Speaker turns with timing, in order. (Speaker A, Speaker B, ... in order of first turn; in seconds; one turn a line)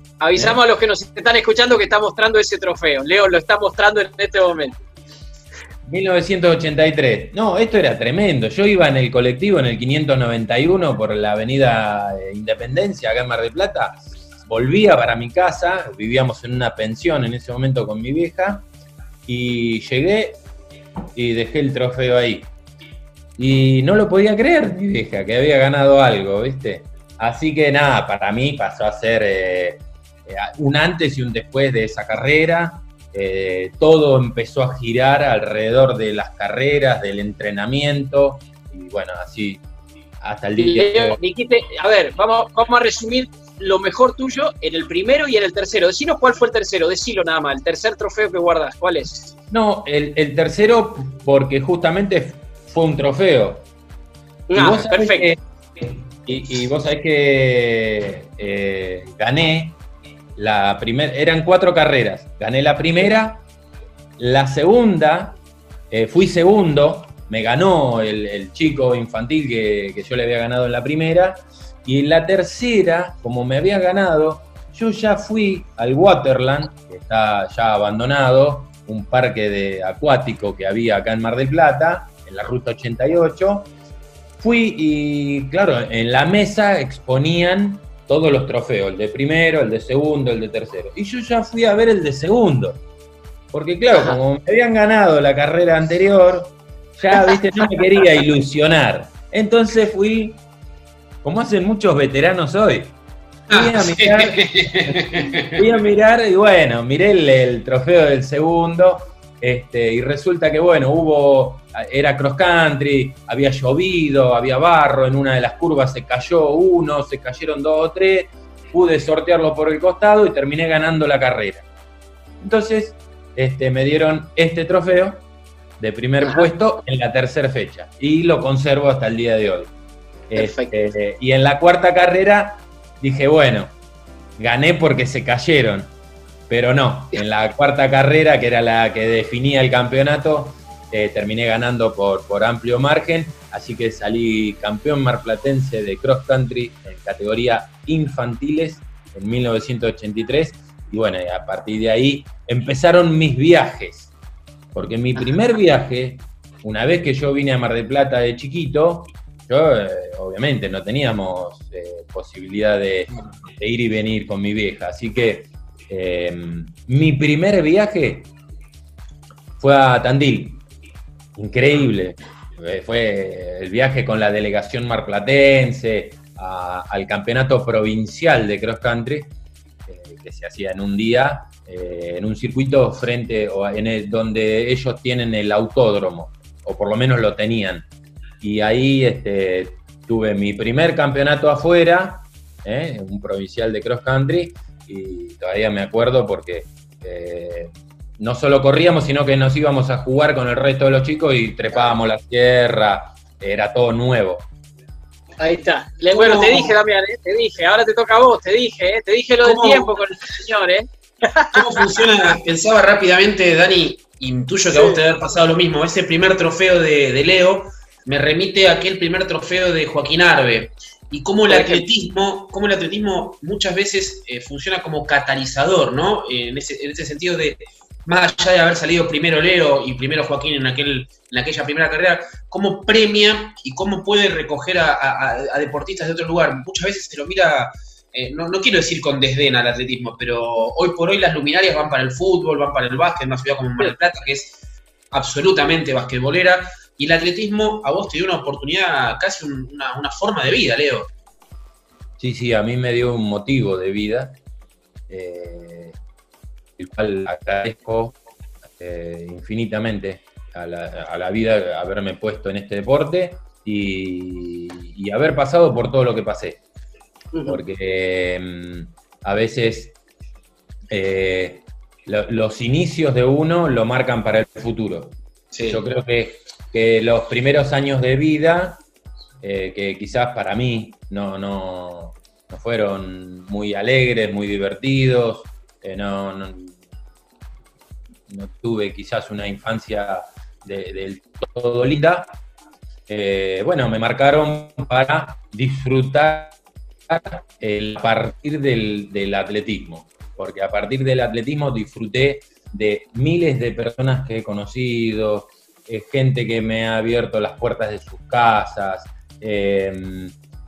Speaker A: 0.2-4.8
Speaker B: 5.8-18.7
Speaker B: 19.2-20.4
Speaker B: 21.1-22.5
Speaker B: 23.4-39.6
Speaker B: 40.2-41.2
Speaker A: 40.6-49.3
Speaker B: 49.5-53.6
Speaker A: 54.5-55.3
Speaker B: 54.5-59.8
Speaker B: 60.4-63.4
Speaker B: 64.2-65.4
Speaker B: 65.9-83.7
Speaker B: 84.4-92.8
Speaker B: 93.5-100.4
Speaker B: 101.2-102.9
Speaker B: 103.5-121.6
Speaker C: 103.5-105.6
Speaker B: 122.4-125.2
Speaker B: 125.8-129.7
Speaker A: 126.2-126.5
Speaker B: 130.3-133.7
Speaker A: 130.3-130.7
Speaker B: 134.4-135.9
Speaker B: 136.5-154.1
Speaker B: 154.7-168.3
Speaker B: 169.6-170.6
Speaker B: 171.3-179.3
Speaker B: 179.9-187.9
Speaker B: 188.4-204.5
Speaker A: 205.4-211.9
Speaker C: 206.1-206.7
Speaker C: 209.4-209.9
Speaker C: 211.5-244.6
Speaker A: 214.7-215.0
Speaker A: 221.5-221.8
Speaker C: 245.1-251.1
Speaker B: 252.2-254.4
Speaker B: 255.1-255.9
Speaker B: 256.8-258.2
Speaker B: 258.8-266.6
Speaker A: 267.3-267.6
Speaker B: 267.4-269.9
Speaker B: 270.9-278.8
Speaker C: 275.5-275.8
Speaker B: 279.4-286.8
Speaker B: 288.3-292.4
Speaker B: 293.1-296.6
Speaker B: 297.1-310.3